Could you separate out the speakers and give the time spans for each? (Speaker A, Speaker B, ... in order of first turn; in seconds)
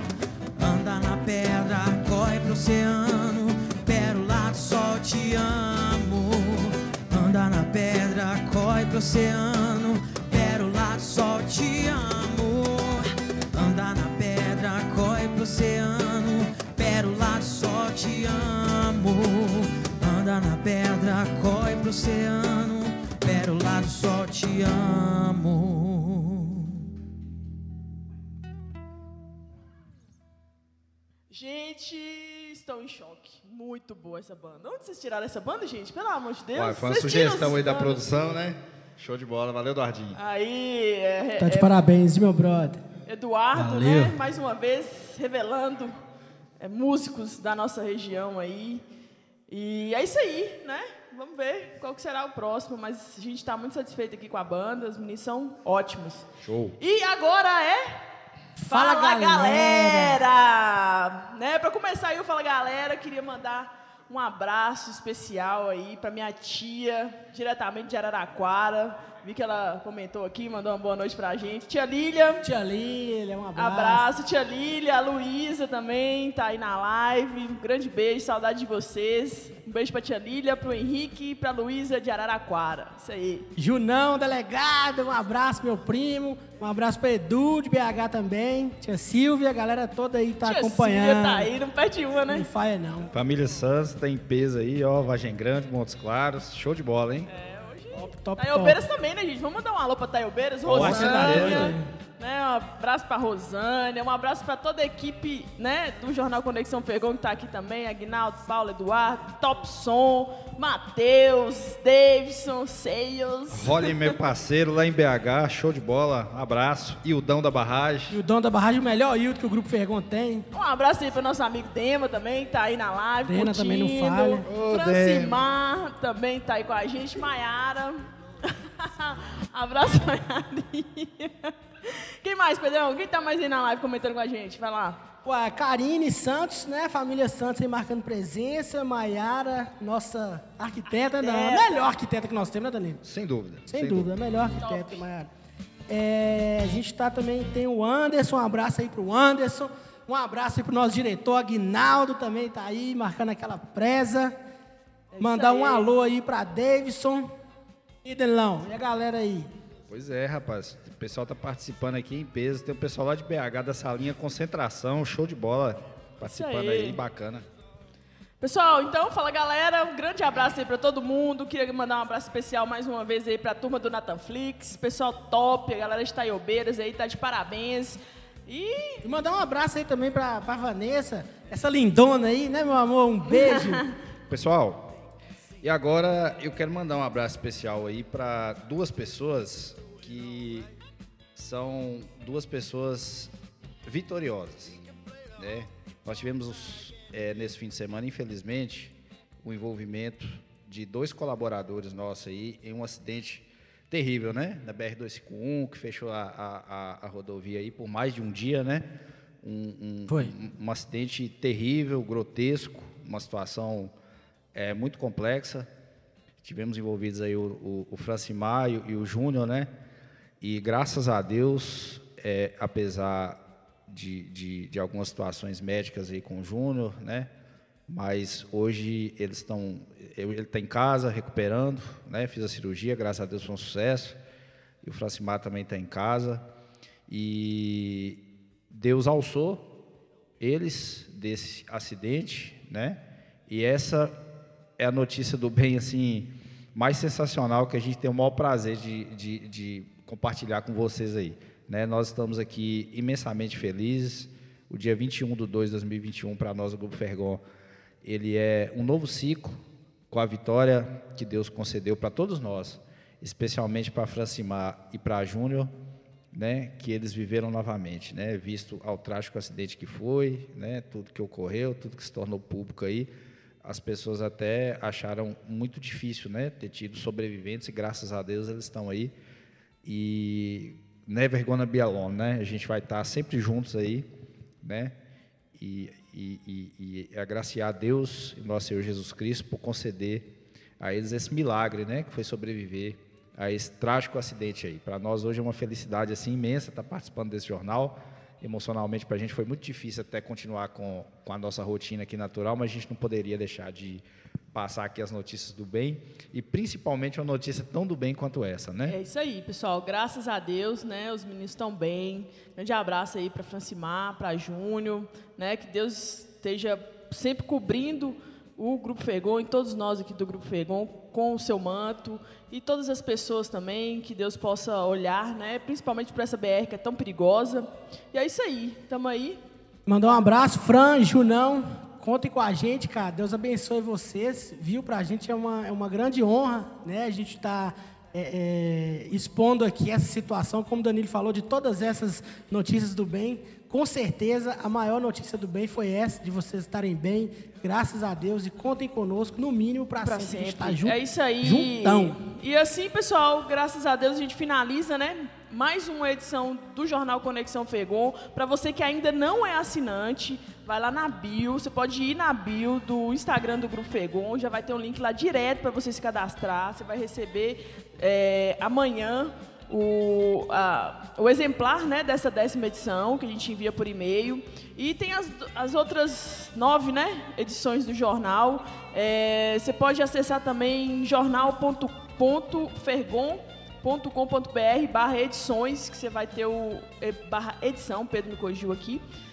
Speaker A: 0.6-26.8, 43.5-44.2
Speaker B: 31.3-38.4, 40.1-41.7, 43.0-46.0, 46.6-48.8, 49.5-56.3, 56.8-58.0, 58.7-72.4, 73.5-83.5, 90.4-92.5, 97.3-114.1, 120.5-135.0, 140.9-141.9, 144.5-145.0, 155.1-155.9, 166.2-167.0, 168.4-179.0, 183.3-183.9, 308.9-329.4, 350.0-389.0
Speaker C: 36.5-40.2, 56.4-56.8, 93.1-97.3, 100.6-101.7, 113.5-118.2, 124.5-125.4, 143.0-144.1, 159.9-167.4, 184.3-184.9, 185.6-190.7, 191.3-193.3, 193.8-194.8, 195.4-208.9, 209.4-213.9, 214.5-215.7, 216.4-219.7, 220.4-227.3, 227.9-234.2, 234.8-236.4, 237.1-239.7, 240.4-244.2, 244.8-257.4, 258.0-265.7, 266.3-273.1, 273.6-279.1, 279.8-284.1, 284.6-285.0, 285.5-309.0
Speaker D: 41.4-42.8, 58.6-60.2, 72.4-74.1, 83.5-91.5, 92.3-93.1, 97.9-98.8, 100.7-101.9, 118.1-120.5, 123.3-124.5, 135.2-143.0, 143.7-145.3, 145.9-154.3, 155.2-157.3, 158.0-159.5, 179.0-183.8, 210.1-210.3, 329.9-352.2